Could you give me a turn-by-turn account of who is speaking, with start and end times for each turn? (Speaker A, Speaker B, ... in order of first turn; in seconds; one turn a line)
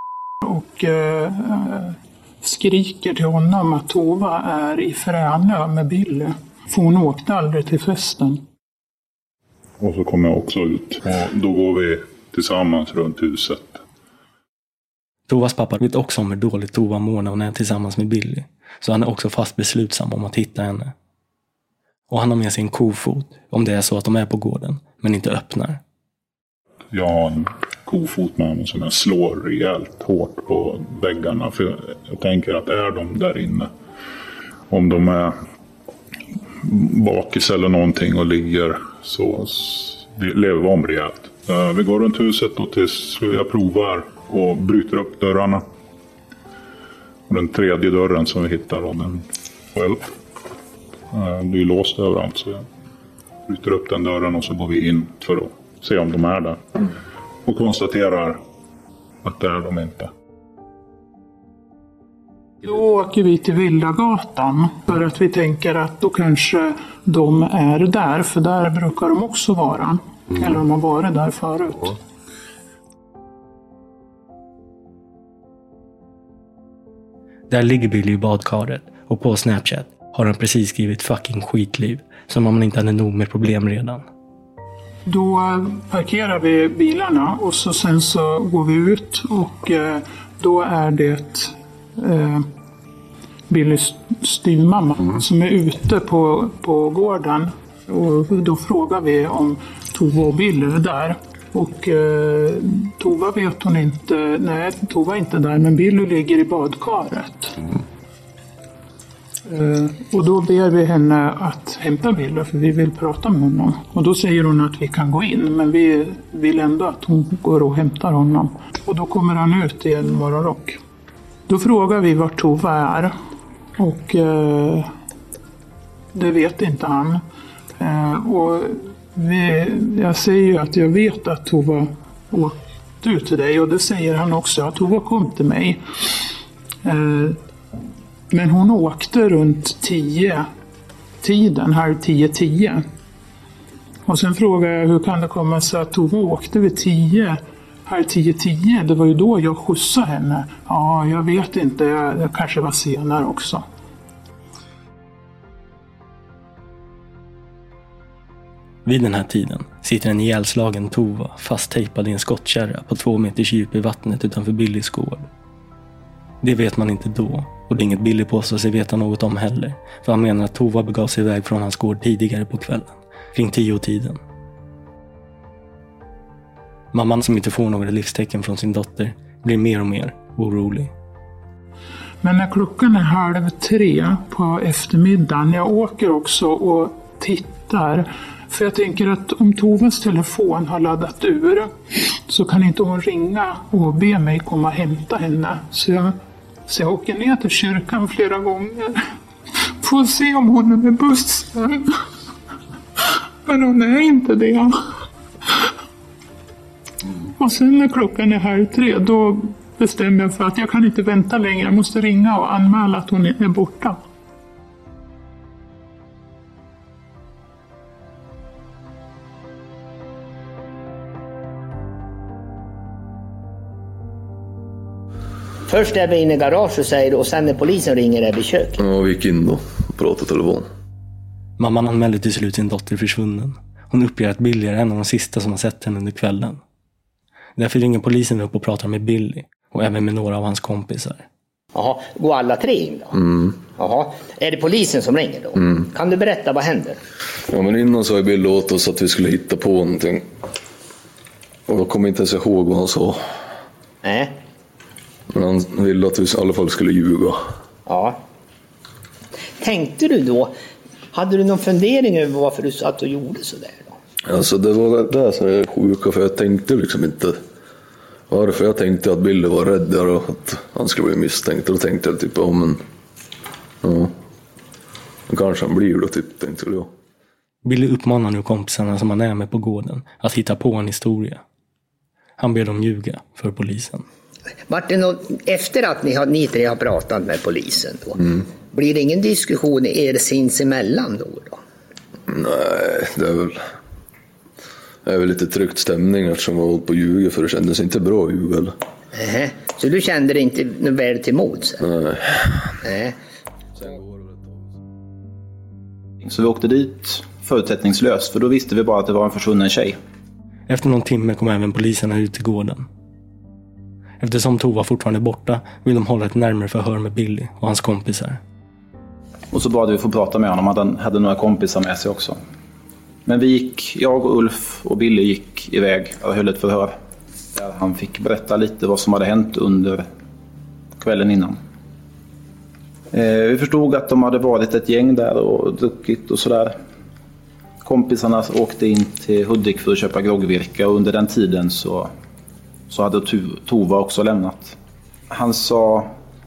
Speaker A: 0.4-8.4
Speaker B: 9.8-13.8
Speaker C: 15.3-20.9
Speaker C: 22.1-25.8
Speaker B: 26.9-33.7
Speaker B: 34.7-35.3
Speaker B: 36.6-45.6
Speaker B: 47.3-50.1
Speaker B: 51.1-52.6
Speaker B: 53.5-56.6
Speaker B: 57.4-58.4
Speaker B: 59.2-60.1
Speaker A: 62.6-71.9
Speaker C: 77.5-84.0
Speaker A: 85.1-92.5
Speaker A: 93.5-107.6
Speaker A: 109.5-120.8
Speaker A: 121.5-123.1
Speaker A: 123.8-124.9
Speaker A: 126.1-127.2
Speaker A: 127.8-135.8
Speaker A: 136.8-137.4
Speaker A: 138.3-140.5
Speaker A: 141.2-142.8
Speaker A: 144.1-153.6
Speaker C: 158.8-165.3
Speaker C: 166.4-174.2
Speaker C: 176.9-180.9
Speaker A: 182.2-196.1
Speaker A: 196.7-199.0
Speaker A: 199.8-202.0
Speaker A: 203.4-204.7
Speaker A: 207.4-214.0
Speaker D: 225.7-228.8
Speaker E: 228.8-230.7
Speaker C: 231.6-236.6
Speaker C: 237.6-241.2
Speaker D: 241.7-243.1
Speaker E: 243.1-243.6
Speaker D: 243.7-247.0
Speaker E: 247.5-250.3
Speaker E: 251.7-253.4
Speaker D: 254.0-254.3
Speaker E: 255.3-257.4
Speaker D: 257.9-258.2
Speaker D: 259.6-260.5
Speaker D: 261.1-263.9
Speaker E: 264.2-267.4
Speaker E: 268.3-272.8
Speaker E: 273.8-274.1
Speaker E: 275.3-276.9
Speaker C: 277.6-281.4
Speaker C: 282.4-284.0
Speaker D: 284.7-288.2
Speaker D: 288.7-291.6
Speaker E: 292.3-293.6
Speaker E: 295.0-298.7
Speaker D: 299.1-301.8
Speaker E: 301.8-302.7
Speaker D: 302.8-303.1
Speaker E: 303.8-304.6
Speaker F: 306.2-310.0
Speaker C: 310.7-312.9
Speaker C: 314.2-318.4
Speaker F: 319.5-322.4
Speaker F: 323.2-326.9
Speaker F: 327.5-330.1
Speaker F: 331.0-331.6
Speaker F: 333.1-336.8
Speaker F: 337.8-342.1
Speaker F: 342.9-344.8
Speaker F: 345.3-346.1